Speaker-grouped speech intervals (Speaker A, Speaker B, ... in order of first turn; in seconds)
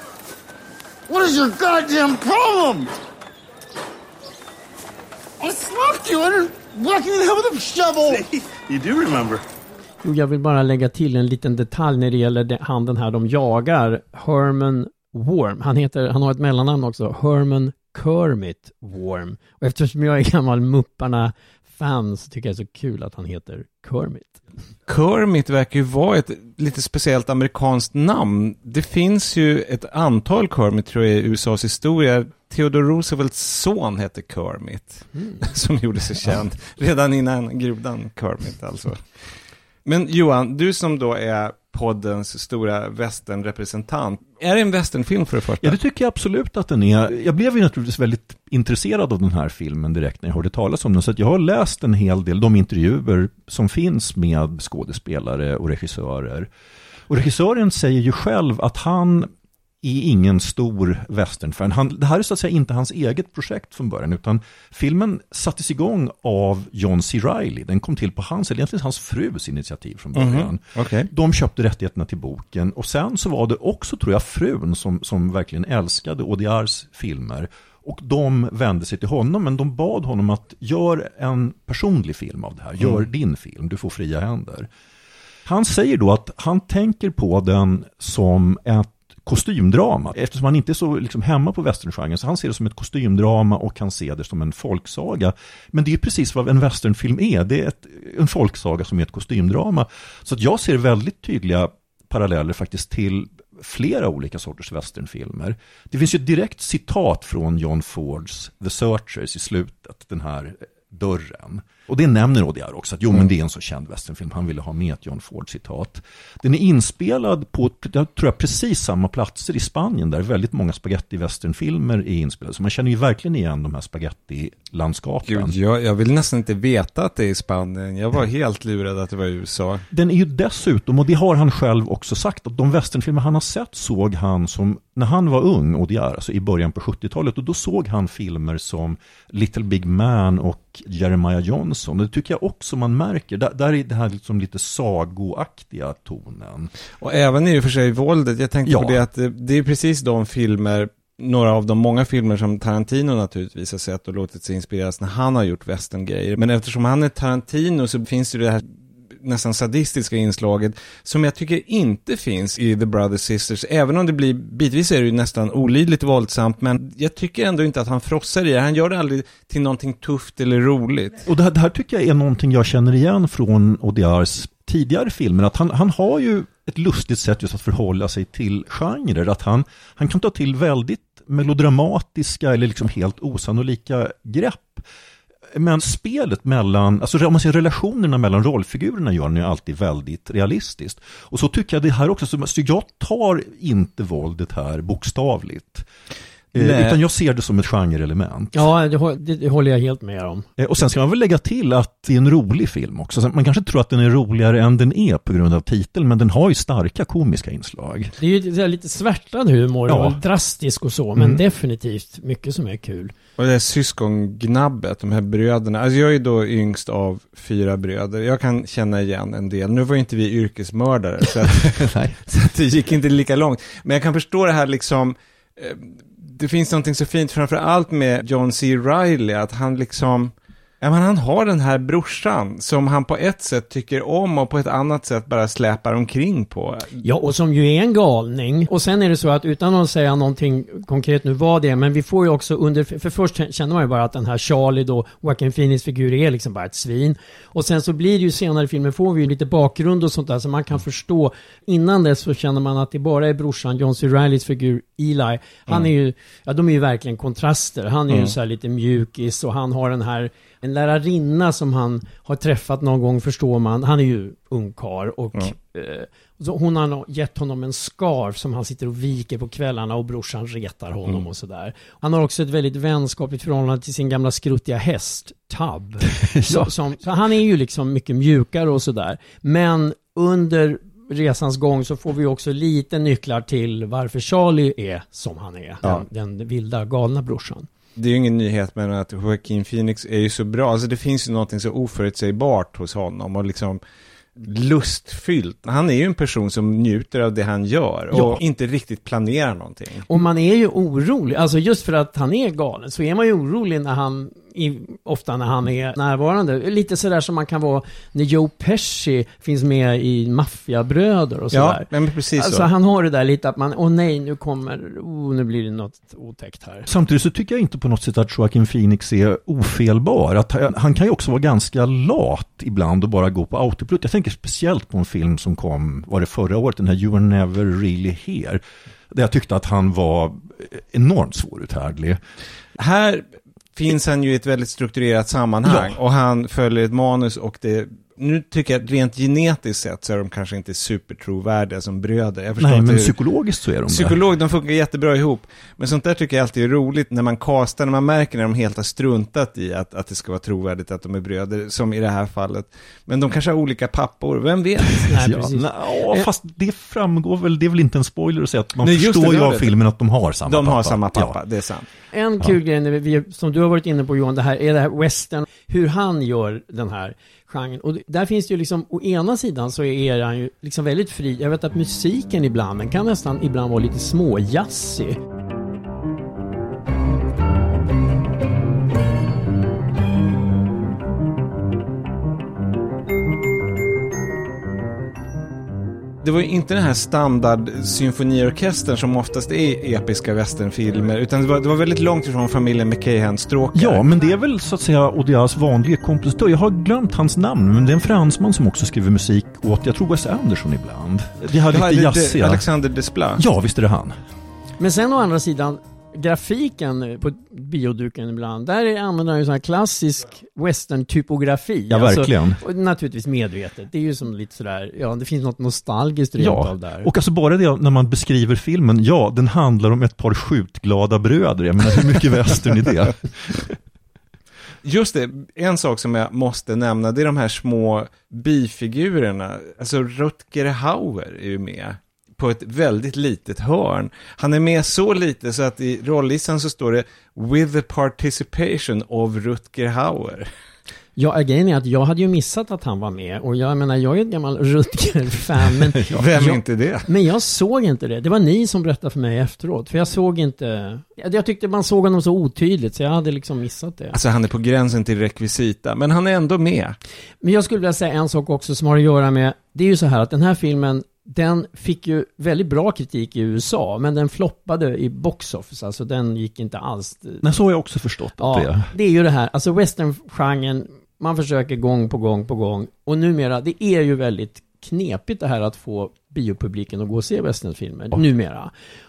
Speaker A: 1.1-2.9, 5.4-9.4
Speaker B: 10.0-24.4, 198.5-200.4, 208.2-213.1, 237.0-287.7, 300.1-316.9, 355.1-356.2, 362.1-375.2, 404.8-417.1, 441.1-454.2, 457.4-467.4, 468.4-478.7
Speaker C: 24.9-39.0, 39.9-45.8, 70.2-71.1, 125.3-129.8, 147.0-158.7, 159.2-171.2, 196.5-197.0, 213.4-237.0, 288.0-293.8, 294.4-300.1, 311.5-312.7, 332.8-343.1, 343.9-355.3, 358.8-359.7, 360.5-361.9, 386.2-394.0, 401.7-403.4, 424.8-440.5, 446.1-447.1, 454.1-456.9
Speaker D: 45.6-56.5, 57.1-84.7, 85.5-125.5, 129.9-146.7, 148.7-149.0, 171.2-184.8, 185.5-195.9, 196.5-198.7, 200.6-208.1, 209.9-210.2, 221.8-222.2, 276.2-276.7, 316.9-332.2, 335.6-336.0, 342.6-344.2, 355.0-361.4, 393.7-402.6, 403.4-404.2, 411.9-412.6, 416.4-423.8, 467.4-468.9